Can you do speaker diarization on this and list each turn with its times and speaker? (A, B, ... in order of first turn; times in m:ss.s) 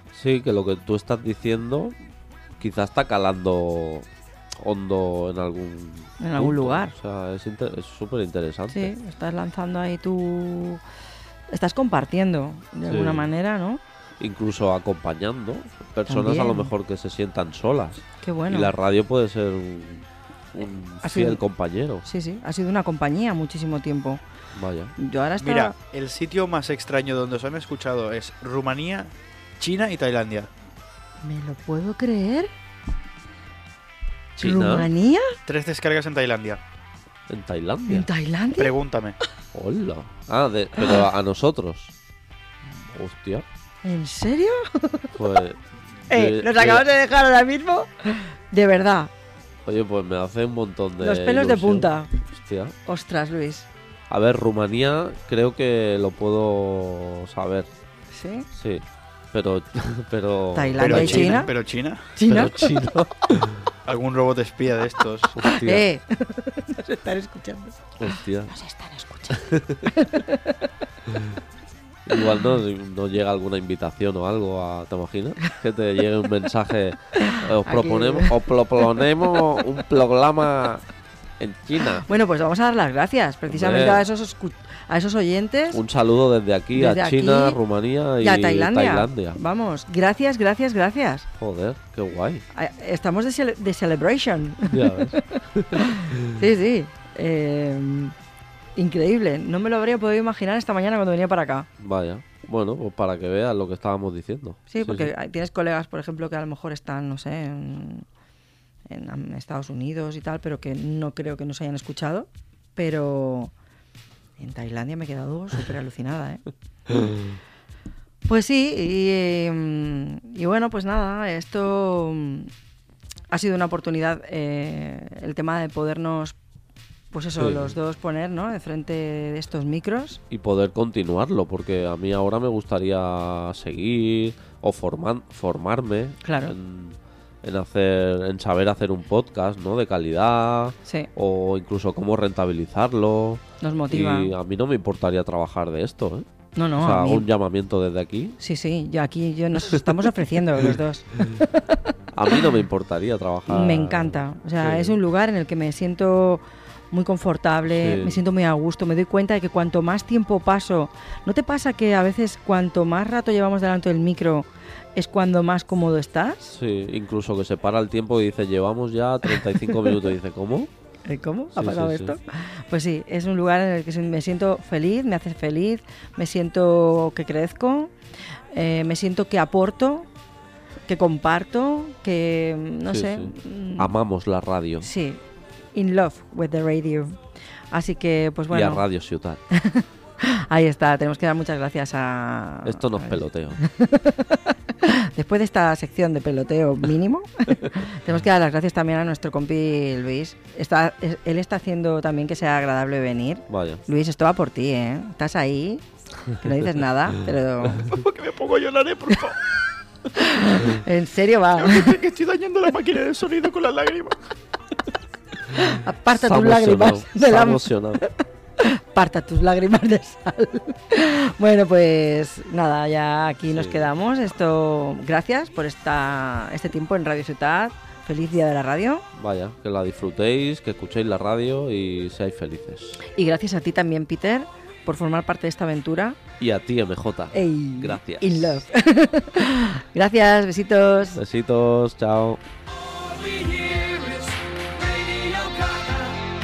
0:00.1-0:02.0 A
0:02.6-0:04.1 A
0:04.6-0:08.9 A
0:06.2-0:06.9 B
0:08.7-0:10.8 B
0:11.5-0:13.8 B
0:12.9-0:13.3 A
0:14.2-0:22.1 A
0:16.1-0:16.7 B
0:18.2-0:18.7 B
0:21.0-0:21.4 B
0:22.0-0:24.2 B
0:24.5-0:25.0 A
0:25.0-0:25.8 B
0:25.4-0:30.5 C
0:31.2-0:32.5 B
0:34.4-0:34.9 A
0:34.4-0:35.3 B
0:35.5-0:36.6 C
0:37.3-0:38.1 A
0:37.9-0:38.8 B
0:38.6-0:39.2 C
0:39.5-0:41.9 A
0:42.9-0:43.4 A
0:43.8-0:45.2 B
0:45.2-0:46.9 A
0:46.1-0:49.1 B
0:49.7-0:52.8 A
0:51.0-0:52.2 B
0:52.8-0:53.7 B
0:54.1-0:57.7 A
0:58.1-0:58.5 B
0:58.5-1:01.5 A
1:00.5-1:01.5 B
1:00.8-1:02.1 C
1:02.1-1:02.7 B
1:02.2-1:03.6 A
1:03.9-1:05.4 C
1:05.4-1:05.9 A
1:05.4-1:10.7 B
1:08.0-1:08.5 A
1:09.3-1:09.9 A
1:12.1-1:20.9 A
1:17.2-1:19.5 B
1:21.4-1:22.1 A
1:21.9-1:25.8 B
1:23.5-1:24.0 A
1:25.7-1:29.4 A
1:26.7-1:27.6 B
1:28.2-1:31.3 B
1:31.4-1:32.4 A
1:32.5-1:38.1 B
1:34.7-1:36.4 A
1:38.8-1:41.7 B
1:41.8-1:45.1 A
1:44.7-1:48.0 B
1:48.9-1:53.5 B
1:54.4-1:57.0 B
1:58.3-2:02.5 B
2:03.3-2:06.4 B
2:07.1-2:10.2 B
2:07.4-2:07.8 A
2:10.3-2:28.4 A
2:16.2-2:16.6 B
2:23.6-2:24.3 B
2:26.6-2:27.3 B
2:28.4-2:32.5 B
2:29.7-2:30.8 A
2:32.1-2:35.0 A
2:33.5-2:46.6 B
2:37.7-2:38.2 A
2:46.5-2:50.7 A
2:49.3-2:50.0 B
2:51.1-2:57.9 B
2:51.6-2:52.2 A
2:58.5-3:00.1 B
3:00.9-3:03.9 B
3:02.9-3:04.9 A
3:04.8-3:05.2 B
3:05.8-3:07.2 B
3:07.7-3:08.8 B
3:08.5-3:09.4 A
3:09.5-3:27.9 B
3:12.6-3:13.6 A
3:23.5-3:23.8 A
3:27.8-3:29.4 C
3:30.1-3:32.0 B
3:31.6-3:34.3 C
3:35.5-3:49.0 B
3:36.1-3:38.0 A
3:43.5-3:43.9 A
3:49.2-3:53.0 A
3:53.1-3:56.2 B
3:56.4-3:58.6 A
3:57.3-4:01.2 B
4:01.2-4:02.4 A
4:03.0-4:06.2 B